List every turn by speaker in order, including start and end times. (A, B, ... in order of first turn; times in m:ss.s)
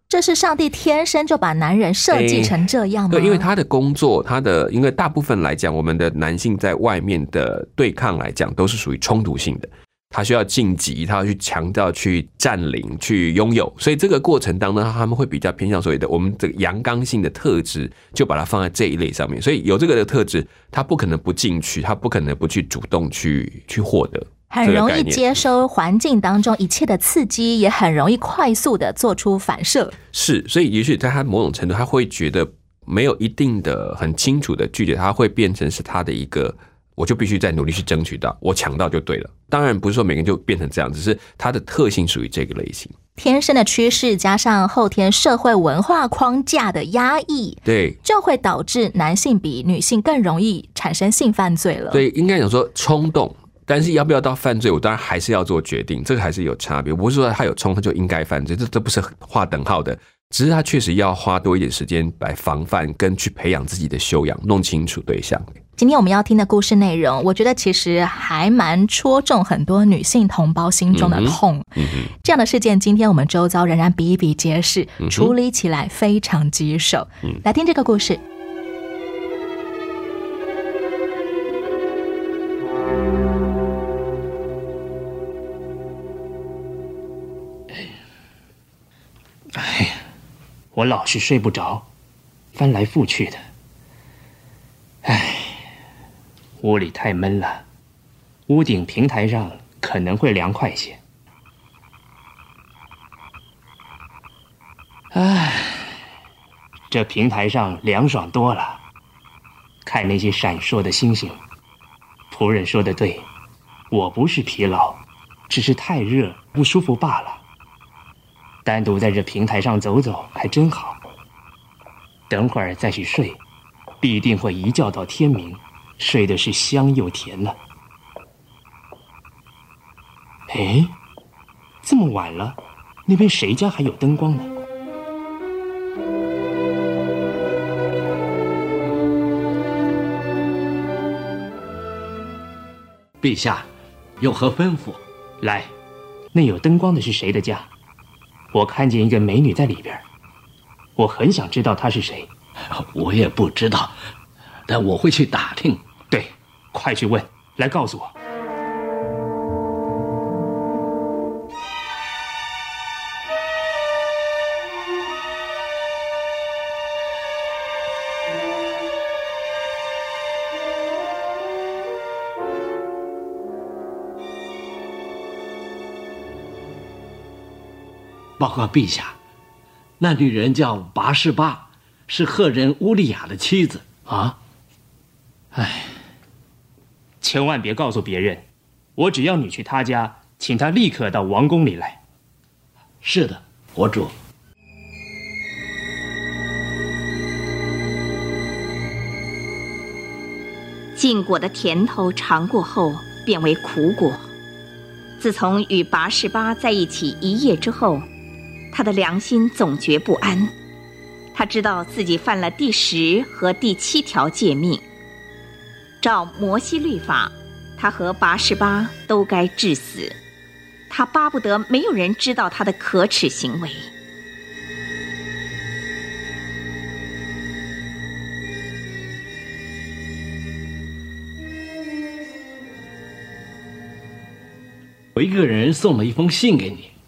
0:00.1-0:03.4 A
0:02.1-0:25.3 B
0:24.5-0:29.9 A
0:30.1-0:42.9 B
0:43.2-0:52.0 A
0:47.6-0:48.0 B
0:51.9-1:05.6 B
1:05.8-1:18.2 A
1:10.9-1:12.1 B
1:15.0-1:15.4 B
1:29.6-1:30.0 C
1:30.7-1:31.9 C
1:32.6-1:33.4 C
1:35.0-1:35.6 C
1:36.6-1:37.6 C
1:38.5-1:41.0 C
1:45.1-1:45.9 C
1:46.9-1:48.8 C
1:49.8-1:51.4 C
1:52.3-1:53.3 C
1:53.9-1:57.4 C
1:58.6-2:01.0 C
2:02.3-2:03.4 C
2:04.0-2:07.6 C
2:10.5-2:10.9 C
2:11.8-2:14.5 C
2:23.2-2:23.7 D
2:24.2-2:25.0 D
2:25.4-2:25.7 C
2:26.3-2:27.7 C
2:28.5-2:30.0 C
2:31.0-2:32.3 C
2:32.7-2:34.0 D
2:34.7-2:35.8 D
2:36.1-2:38.1 C
2:58.4-2:59.2 D
3:00.0-3:04.4 D
3:05.5-3:06.0 D
3:07.2-3:08.4 C
3:09.0-3:12.0 C
3:13.0-3:14.1 D
3:21.0-3:24.3 E
3:25.2-3:28.1 E
3:28.7-3:30.5 E
3:31.3-3:34.8 E
3:36.0-3:40.2 E
3:40.9-3:43.9 E
3:55.2-3:56.9 D